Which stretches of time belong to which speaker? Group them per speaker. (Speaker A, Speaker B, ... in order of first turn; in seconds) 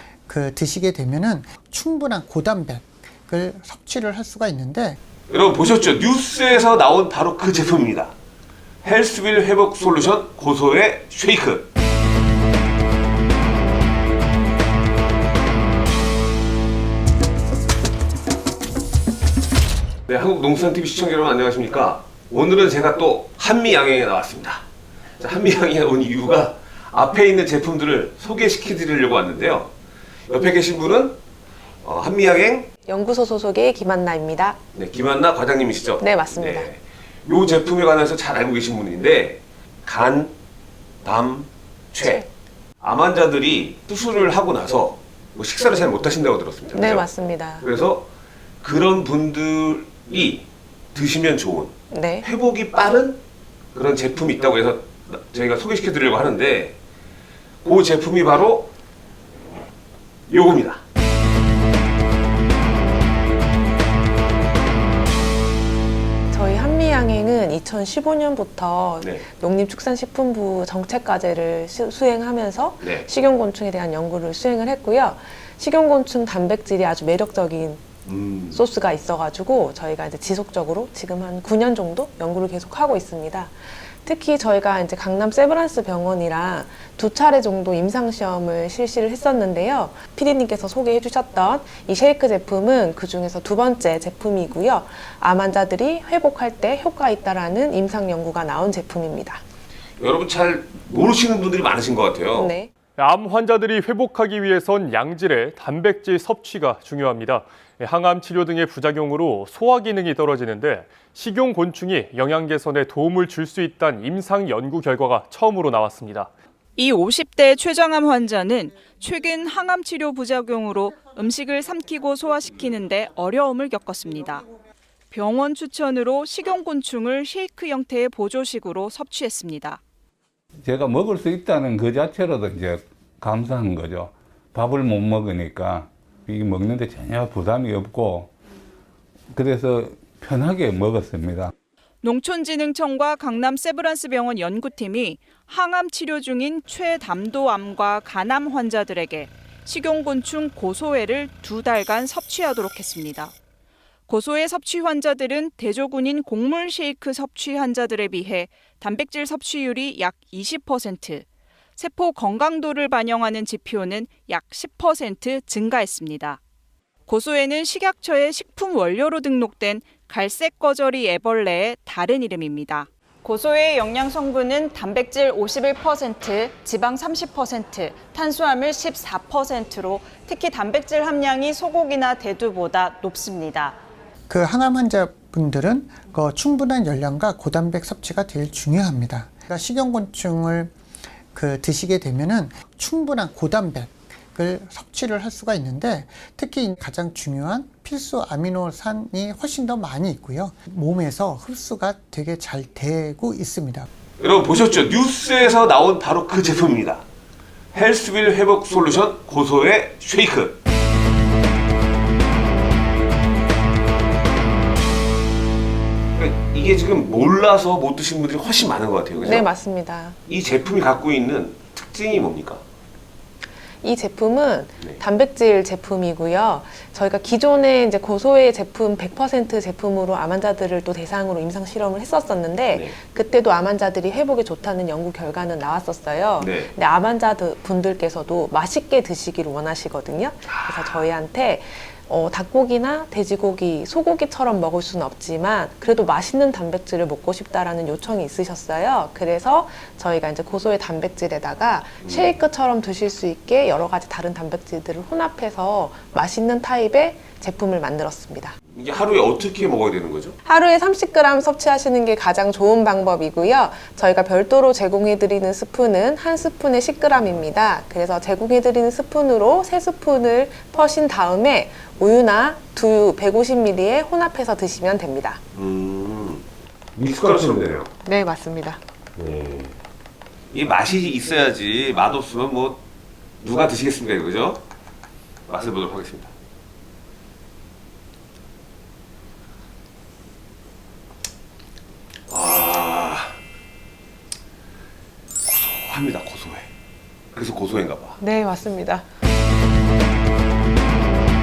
Speaker A: 0.3-5.0, 184.3-190.7, 191.3-203.9
Speaker B: 5.3-8.1, 8.8-11.7, 20.1-24.6, 25.2-29.7, 30.3-31.2, 31.8-32.7, 34.7-40.3, 41.0-42.3, 42.8-47.1, 47.6-48.1, 48.6-53.2, 53.7-56.8, 57.6-58.7, 60.3-60.8, 72.8-73.1, 78.0-78.6, 100.0-102.5, 204.2-207.0, 207.7-210.6, 216.2-219.5, 220.3-222.6, 236.4-236.7, 240.5-240.9, 252.0-252.3, 258.7-260.4, 275.5-276.4, 276.9-277.9, 279.2-279.7, 280.5-282.8, 283.4-284.6, 285.5-286.3, 292.3-293.4, 295.4-296.7, 297.3-298.2
Speaker C: 32.9-34.6, 36.0-36.7, 46.7-47.6, 51.9-52.3, 66.3-77.9, 78.5-99.4, 102.3-102.7, 219.2-220.2, 223.8-258.6, 260.4-275.4, 278.0-278.8, 298.2-299.1
Speaker D: 103.0-116.3
Speaker E: 116.8-124.5, 125.1-129.8, 142.0-153.3, 154.1-161.2, 161.8-166.4, 167.1-183.8
Speaker F: 130.6-138.3, 139.3-141.5